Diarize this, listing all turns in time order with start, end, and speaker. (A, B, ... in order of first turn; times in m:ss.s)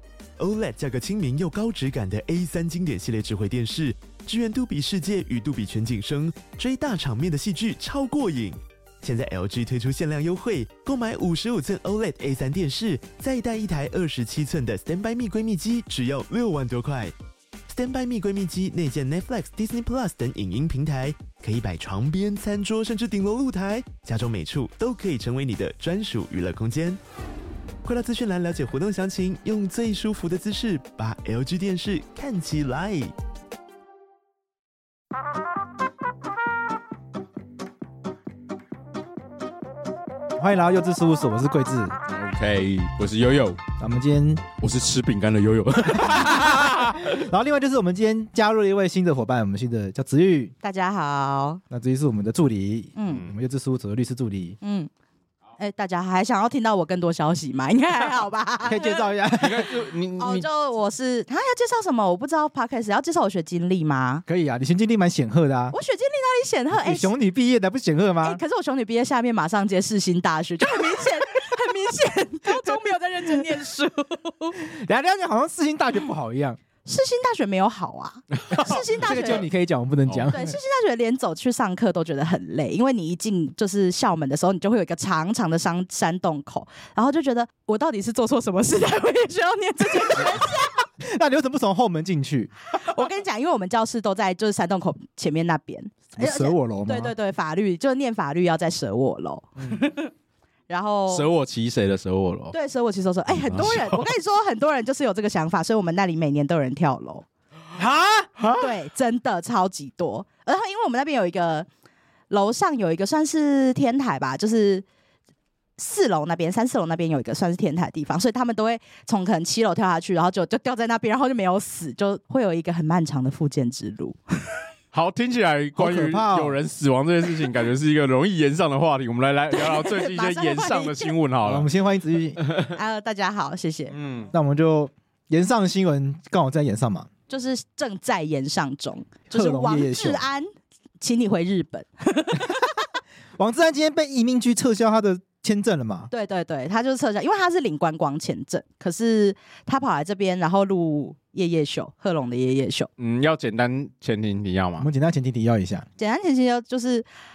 0:00.4-0:17.1 A
0:17.7-0:27.0 A
0:27.8-0:33.1 A
0:40.4-0:41.9 B
0:42.1-0:43.6 C
0:43.8-0:44.5 B
0:44.6-0:47.2 C
0:45.8-0:50.5 B
0:50.6-0:51.6 D
0:51.7-0:54.6 B
0:53.0-0:53.2 D
0:54.6-0:54.9 D
0:55.6-0:59.1 D
0:58.6-0:59.7 B
0:59.4-1:00.5 C
1:00.2-1:04.2 D
1:04.3-1:05.8 B
1:05.7-1:07.1 D
1:06.8-1:08.4 B
1:08.2-1:14.6 D
1:14.6-1:16.6 B
1:16.8-1:19.4 D
1:18.5-1:20.6 B
1:20.3-1:30.8 D
1:30.1-1:30.4 B
1:31.0-1:32.5 B
1:32.7-1:40.1 D
1:36.1-1:37.1 B
1:39.6-1:39.8 B
1:40.7-1:41.3 D
1:41.1-1:42.6 C
1:42.5-1:47.3 D
1:43.4-1:44.0 C
1:47.8-1:48.4 B
1:48.6-1:51.7 D
1:52.3-1:54.9 D
1:55.8-2:04.2 D
2:04.9-2:11.7 C
2:05.8-2:06.6 B
2:09.5-2:11.2 D
2:11.4-2:12.4 B
2:12.5-2:12.7 C
2:12.6-2:14.0 D
2:13.9-2:14.3 C
2:14.3-2:17.1 B
2:17.3-2:20.5 D
2:19.3-2:20.2 B
2:21.0-2:22.8 D
2:23.4-2:26.1 B
2:26.1-2:32.9 D
2:33.0-2:34.9 C
2:34.8-2:35.9 B
2:36.0-2:37.1 D